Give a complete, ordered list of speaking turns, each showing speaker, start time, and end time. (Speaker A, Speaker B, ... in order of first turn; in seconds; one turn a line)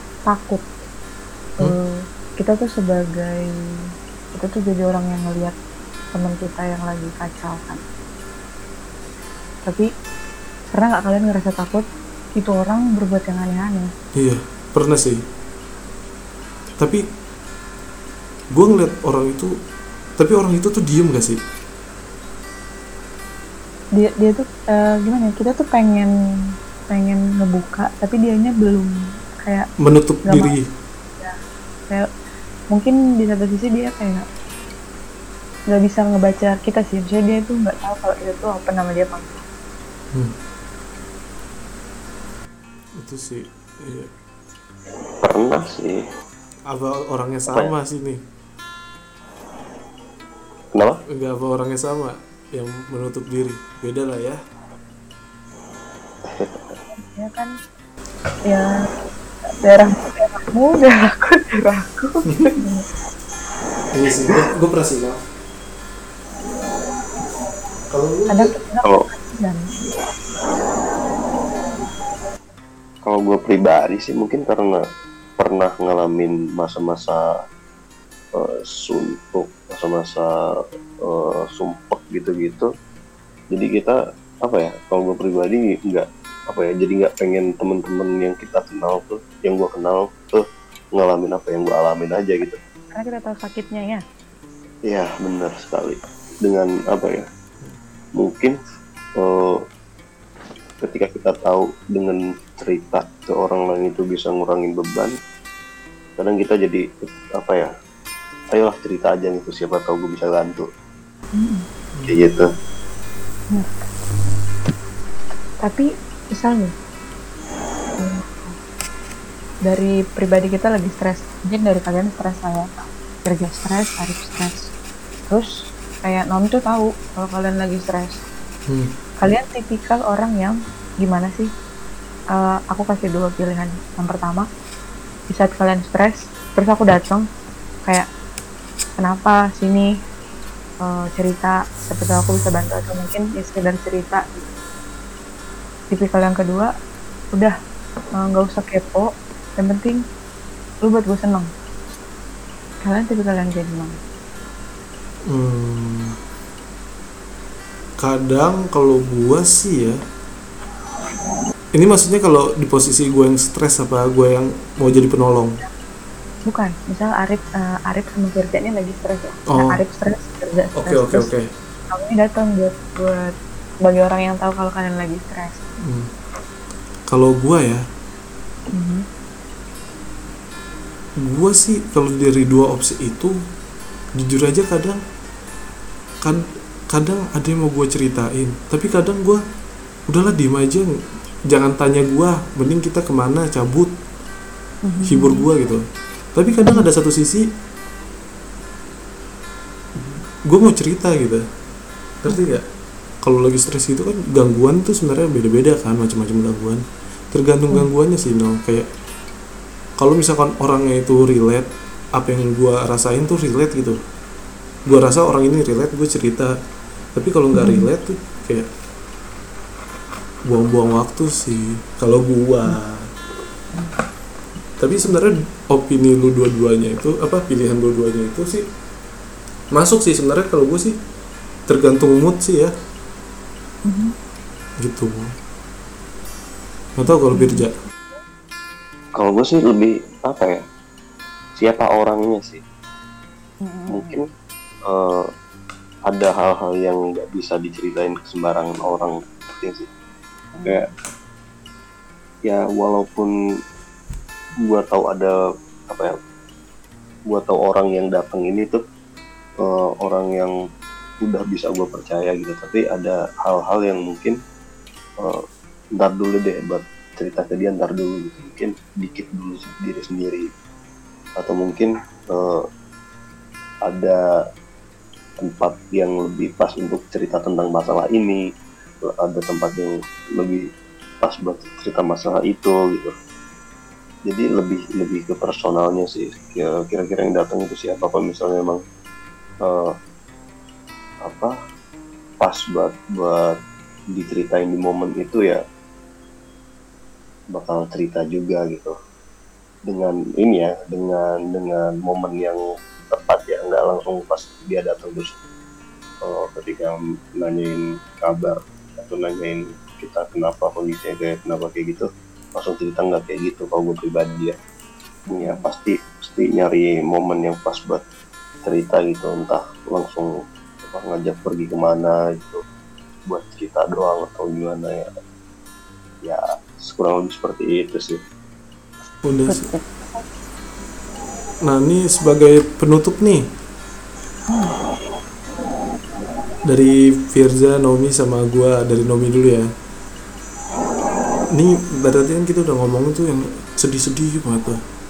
Speaker A: 0.3-0.7
Speaker A: 1.6-3.5
Speaker A: 4.3-5.5
Speaker A: 6.1-7.8
Speaker A: 10.7-11.8
Speaker A: 12.3-13.9
Speaker B: 14.2-15.2
Speaker B: 18.5-19.5
Speaker B: 20.2-21.4
Speaker A: 23.9-26.1
Speaker A: 26.9-29.7
Speaker B: 29.8-30.7
Speaker A: 30.2-30.5
Speaker A: 32.7-34.2
Speaker A: 35.7-39.4
Speaker B: 43.0-44.1
Speaker C: 45.2-46.0
Speaker B: 46.7-48.2
Speaker C: 50.7-51.0
Speaker B: 51.1-54.4
Speaker C: 56.2-56.8
Speaker A: 56.9-57.5
Speaker A: 59.6-62.8
Speaker B: 63.9-65.2
Speaker B: 67.9-68.5
Speaker A: 68.3-69.7
Speaker C: 73.0-74.8
Speaker C: 75.4-77.2
Speaker C: 78.3-80.3
Speaker C: 81.0-82.7
Speaker C: 83.5-90.4
Speaker C: 91.0-92.6
Speaker A: 92.9-94.0
Speaker C: 94.9-97.2
Speaker C: 98.2-98.5
Speaker C: 99.2-99.6
Speaker C: 100.8-105.1
Speaker C: 106.2-106.8
Speaker C: 107.4-107.7
Speaker C: 108.5-110.7
Speaker A: 111.3-111.7
Speaker B: 111.9-112.2
Speaker C: 112.1-112.5
Speaker A: 113.5-113.8
Speaker A: 115.6-116.7
Speaker A: 118.0-118.5
Speaker A: 119.7-122.7
Speaker A: 123.2-124.7
Speaker A: 126.0-128.2
Speaker A: 129.2-131.5
Speaker A: 132.3-134.5
Speaker A: 135.3-137.2
Speaker A: 139.0-139.9
Speaker A: 140.8-144.4
Speaker A: 145.9-146.7
Speaker A: 148.2-150.0
Speaker A: 150.8-151.5
Speaker A: 152.8-153.9
Speaker B: 155.3-156.1
Speaker B: 158.0-160.0
Speaker B: 161.7-165.6
Speaker A: 166.4-171.3
Speaker B: 169.5-169.8
Speaker B: 170.8-171.5
Speaker A: 171.9-175.7
Speaker B: 175.8-176.1
Speaker B: 177.1-177.8
Speaker A: 178.7-179.0
Speaker B: 181.3-183.3
Speaker B: 184.2-185.0
Speaker B: 186.2-189.4
Speaker B: 190.1-190.9
Speaker B: 191.5-193.9
Speaker A: 194.8-195.4
Speaker B: 195.0-195.8
Speaker B: 196.3-197.4
Speaker B: 200.0-201.4
Speaker B: 202.2-202.6
Speaker A: 202.3-202.6
Speaker B: 203.2-208.9
Speaker B: 210.0-214.0
Speaker B: 214.8-216.5
Speaker B: 217.1-218.7
Speaker A: 217.5-217.9
Speaker B: 220.5-223.1
Speaker B: 224.8-228.6
Speaker B: 229.7-230.9
Speaker B: 231.7-232.7
Speaker A: 233.8-234.1
Speaker B: 234.8-235.3
Speaker B: 237.0-237.7
Speaker A: 237.3-237.7
Speaker C: 239.2-240.6
Speaker C: 241.6-242.6
Speaker A: 243.6-244.1
Speaker C: 243.9-244.2
Speaker C: 244.9-245.2
Speaker C: 246.1-249.9
Speaker A: 250.5-250.9
Speaker C: 252.5-253.3
Speaker C: 254.6-255.3
Speaker C: 257.3-258.8
Speaker C: 259.6-260.5
Speaker C: 261.2-264.4
Speaker C: 266.0-270.5
Speaker C: 271.4-272.6
Speaker C: 273.9-274.2
Speaker C: 275.4-278.4
Speaker C: 279.1-280.6
Speaker C: 281.2-283.1
Speaker C: 284.3-288.8
Speaker C: 289.6-289.9
Speaker C: 291.2-291.5
Speaker C: 292.4-293.6
Speaker C: 294.1-295.6
Speaker C: 297.5-298.9
Speaker C: 299.9-305.4
Speaker C: 306.2-312.1
Speaker C: 312.6-314.6
Speaker A: 315.3-315.7
Speaker C: 315.4-318.0
Speaker C: 318.6-322.6
Speaker C: 323.3-325.1
Speaker C: 326.2-328.2
Speaker B: 329.2-329.7
Speaker A: 329.5-330.3
Speaker B: 331.6-333.4
Speaker A: 334.5-334.8
Speaker B: 336.7-339.7
Speaker B: 341.5-344.8